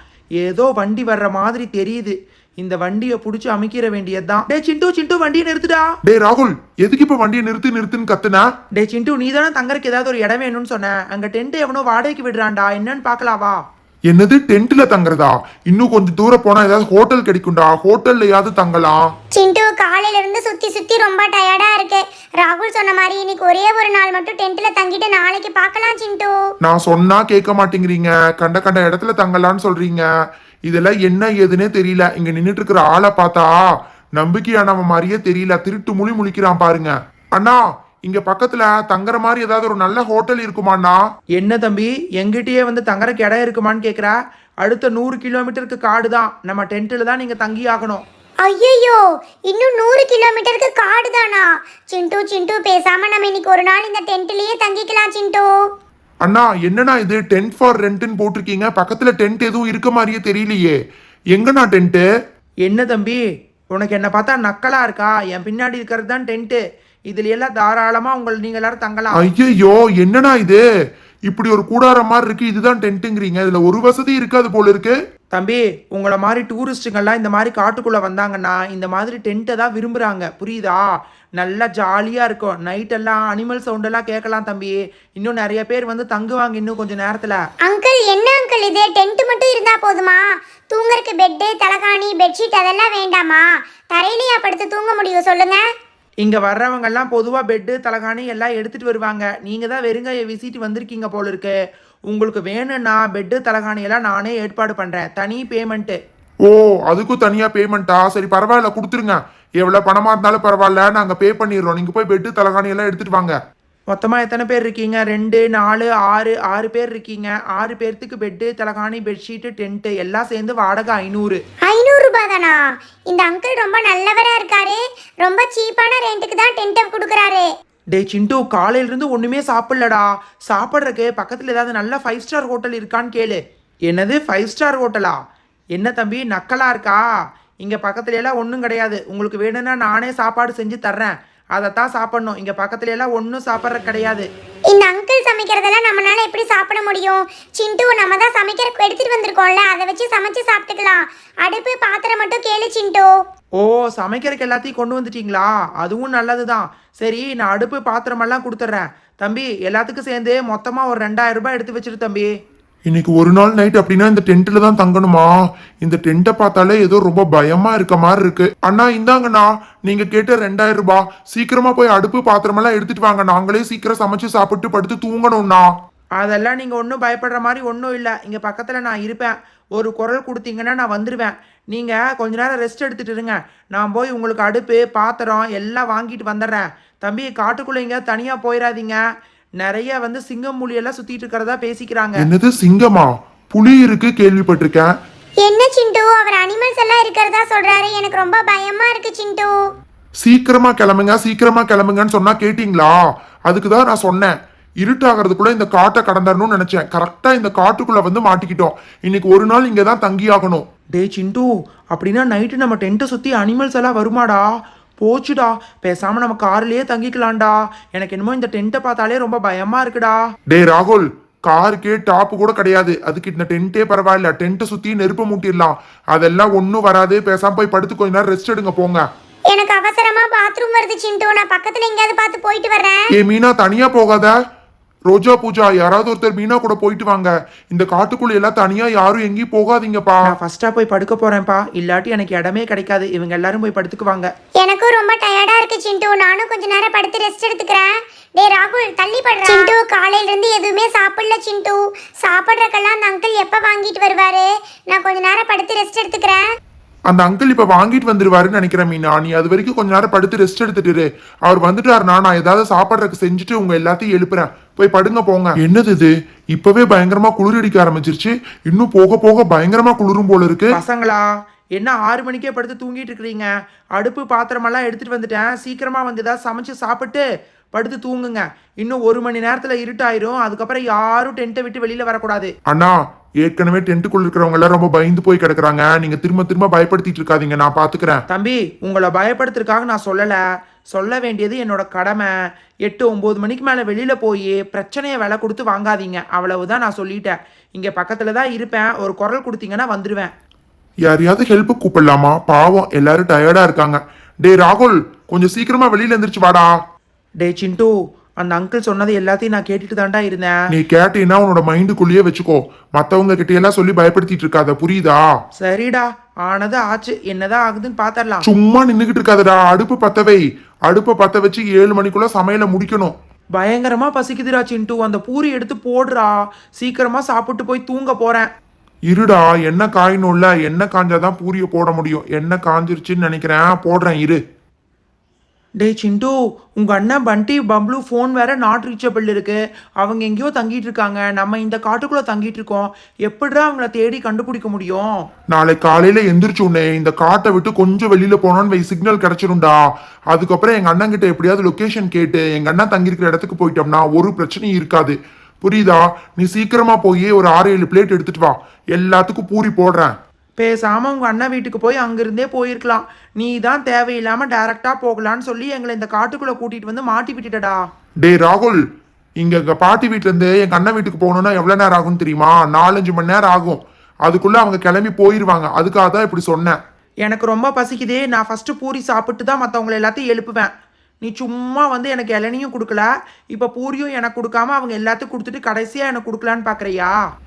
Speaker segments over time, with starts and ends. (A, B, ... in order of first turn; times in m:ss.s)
0:00.4-0:05.9 A
0:06.0-0:08.5 B
0:08.8-0:13.6 A
0:14.1-0:19.0 B
0:19.3-0:26.4 C
0:26.6-0:30.1 B
0:30.7-0:33.6 B
0:34.2-0:41.0 B
0:41.4-0:48.0 A
0:48.4-0:55.5 C
0:56.2-1:00.8 B
1:01.3-1:02.0 B
1:02.6-1:03.2 A
1:03.7-1:09.2 A
1:09.2-1:10.6 B
1:11.3-1:15.0 B
1:15.3-1:20.8 A
1:21.4-1:27.4 A
1:27.6-1:35.6 C
1:36.2-1:41.5 A
1:42.1-1:46.0 A
1:46.4-1:53.4 B
1:53.9-2:01.4 A
2:01.6-2:07.5 C
2:07.9-2:15.2 A
2:15.8-2:17.0 A
2:17.6-2:24.3 A
2:24.7-2:33.1 C
2:33.6-2:42.3 A
2:42.9-2:55.7 B
2:56.2-3:09.0 A
3:09.6-3:12.2 A
3:12.2-3:14.9 B
3:15.4-3:19.5 C
3:20.2-3:23.0 B
3:23.5-3:30.6 B
3:31.0-3:34.4 A
3:35.0-3:40.2 A
3:40.5-3:49.0 B
3:49.5-3:53.0 C
3:53.2-3:54.3 B
3:55.1-4:00.2 B
4:00.3-4:04.3 A
4:04.6-4:16.4 C
4:17.1-4:30.7 B
4:30.7-4:31.2 A
4:31.8-4:37.2 A
4:37.8-4:42.5 A
4:42.7-4:48.2 B
4:48.3-4:50.4 A
4:50.9-4:52.3 A
4:52.8-5:00.3 A
5:01.1-5:06.7 B
5:07.4-5:07.9 A
5:08.4-5:10.5 A
5:10.7-5:15.2 B
5:15.6-5:18.4 A
5:18.4-5:23.1 B
5:23.6-5:28.5 A
5:29.1-5:34.4 B
5:35.8-5:45.1 A
5:45.5-5:49.8 B
5:50.3-6:00.1 B
6:00.6-6:07.8 A
6:08.2-6:08.8 B
6:09.4-6:16.8 B
6:17.2-6:20.7 A
6:21.2-6:27.1 A